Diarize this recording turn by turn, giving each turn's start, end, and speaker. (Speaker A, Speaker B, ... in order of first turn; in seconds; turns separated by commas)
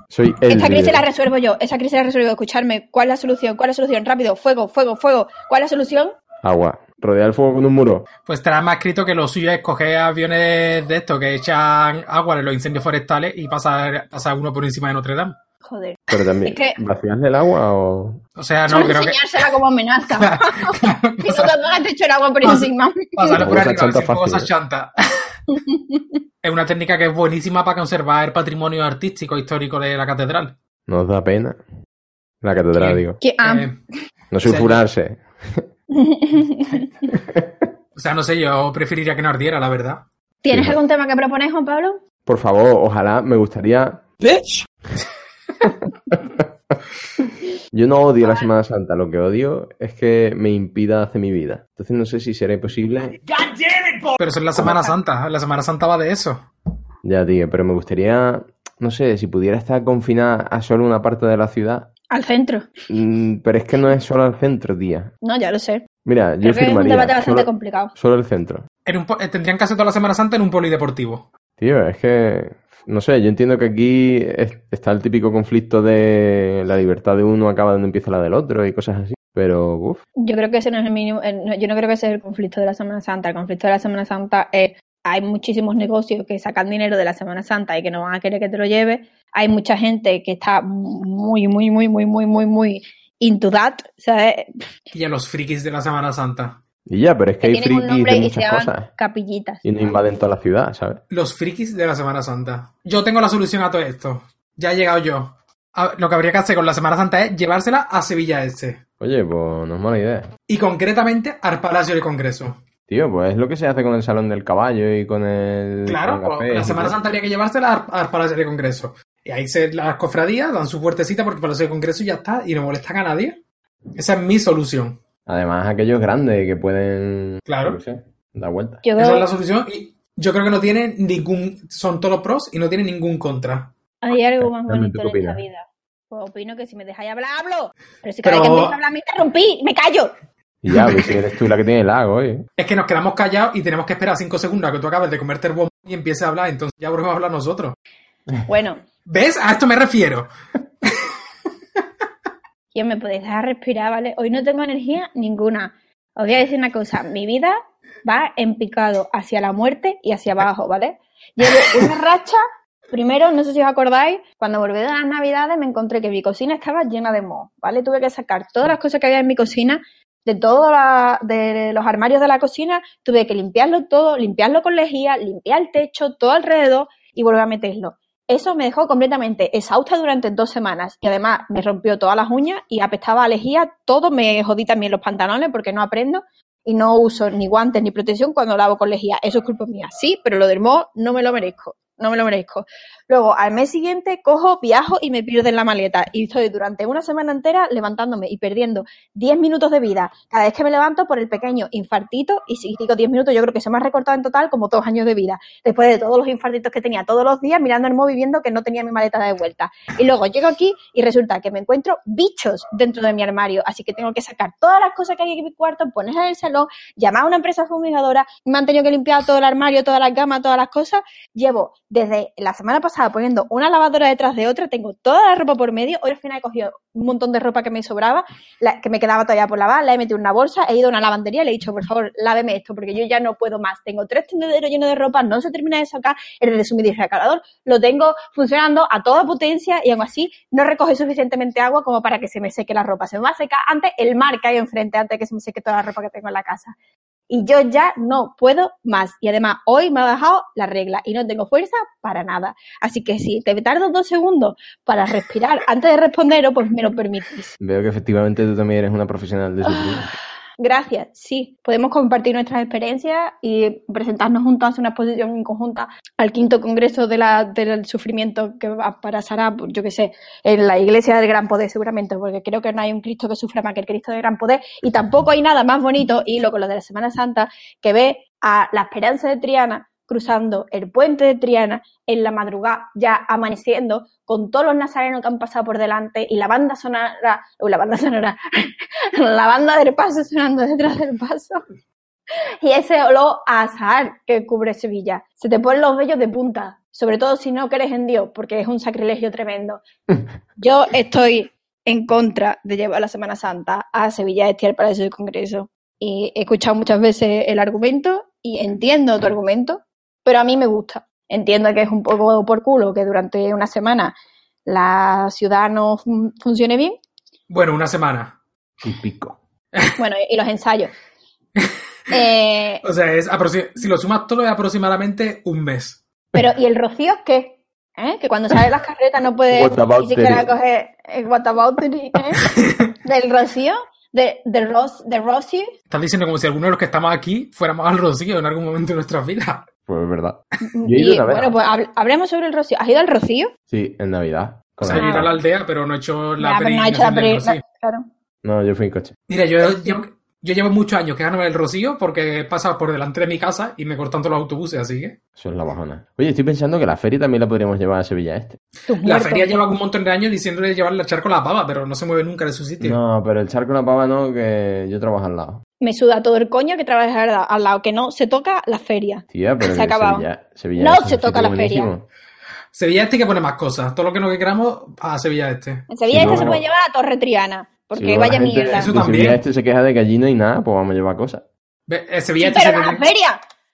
Speaker A: 0.1-1.1, Speaker B: 0.5-6.1, Speaker A: 6.4-8.1, Speaker C: 8.3-15.4, Speaker B: 15.6-16.8, Speaker A: 16.1-18.2, Speaker C: 18.4-19.2, Speaker B: 18.7-23.4, Speaker C: 20.1-21.5, Speaker C: 22.4-25.3, Speaker A: 23.4-24.5, Speaker B: 25.5-26.0, Speaker C: 26.4-30.5, Speaker A: 30.9-31.6, Speaker A: 32.4-33.2, Speaker C: 32.8-33.8, Speaker B: 33.2-33.7, Speaker A: 34.3-35.7, Speaker C: 34.4-34.8, Speaker B: 35.9-37.1, Speaker A: 37.2-37.6, Speaker C: 38.0-40.0, Speaker B: 40.4-42.0, Speaker A: 40.5-40.8, Speaker A: 42.3-44.1, Speaker A: 46.1-46.8, Speaker A: 47.7-53.2, Speaker C: 54.2-56.5, Speaker B: 54.6-54.9, Speaker A: 57.0-61.9, Speaker B: 62.1-62.7, Speaker A: 62.9-65.1, Speaker B: 65.2-65.9, Speaker A: 66.0-68.7, Speaker B: 66.4-67.9, Speaker C: 68.9-71.3, Speaker A: 71.6-80.0, Speaker B: 80.2-94.7, Speaker C: 94.9-96.6, Speaker A: 96.9-98.9, Speaker B: 97.4-100.0, Speaker A: 99.6-101.0, Speaker C: 101.1-108.8, Speaker A: 109.0-110.3, Speaker C: 110.5-112.6, Speaker A: 112.9-117.0, Speaker C: 115.9-123.4, Speaker C: 124.0-125.0, Speaker A: 125.3-128.8, Speaker C: 127.5-127.8, Speaker B: 128.8-129.3, Speaker C: 129.0-133.7, Speaker B: 134.0-140.1, Speaker A: 134.4-135.4, Speaker C: 138.2-138.8, Speaker A: 140.6-142.5, Speaker C: 140.8-141.1, Speaker C: 142.6-147.8, Speaker B: 148.5-148.8, Speaker C: 149.1-150.3, Speaker B: 152.7-246.8, Speaker B: 247.3-257.6, Speaker A: 257.6-260.1, Speaker B: 259.7-260.0, Speaker B: 260.6-291.6, Speaker B: 292.6-299.8, Speaker B: 300.6-314.1, Speaker B: 314.7-317.0, Speaker C: 317.5-318.4, Speaker A: 318.8-319.4, Speaker B: 320.0-320.9, Speaker B: 322.1-322.8, Speaker C: 322.8-326.0, Speaker B: 326.4-332.5, Speaker A: 329.5-330.5, Speaker C: 332.5-332.9, Speaker B: 333.0-335.7, Speaker C: 335.9-339.7, Speaker A: 339.9-341.6, Speaker B: 340.6-343.5, Speaker A: 343.7-345.3, Speaker C: 344.8-347.6, Speaker B: 344.9-345.4, Speaker B: 346.4-348.1, Speaker A: 348.4-349.1, Speaker C: 349.3-355.2, Speaker B: 349.7-350.0, Speaker A: 355.4-358.6, Speaker B: 358.9-359.5, Speaker C: 359.0-363.0, Speaker A: 362.8-365.6, Speaker B: 365.8-370.3, Speaker A: 369.3-372.1, Speaker B: 370.8-371.9, Speaker C: 372.7-376.5, Speaker B: 375.9-378.9, Speaker A: 376.1-376.6, Speaker A: 378.0-381.5, Speaker C: 378.7-379.4, Speaker C: 381.9-383.1, Speaker B: 382.4-383.4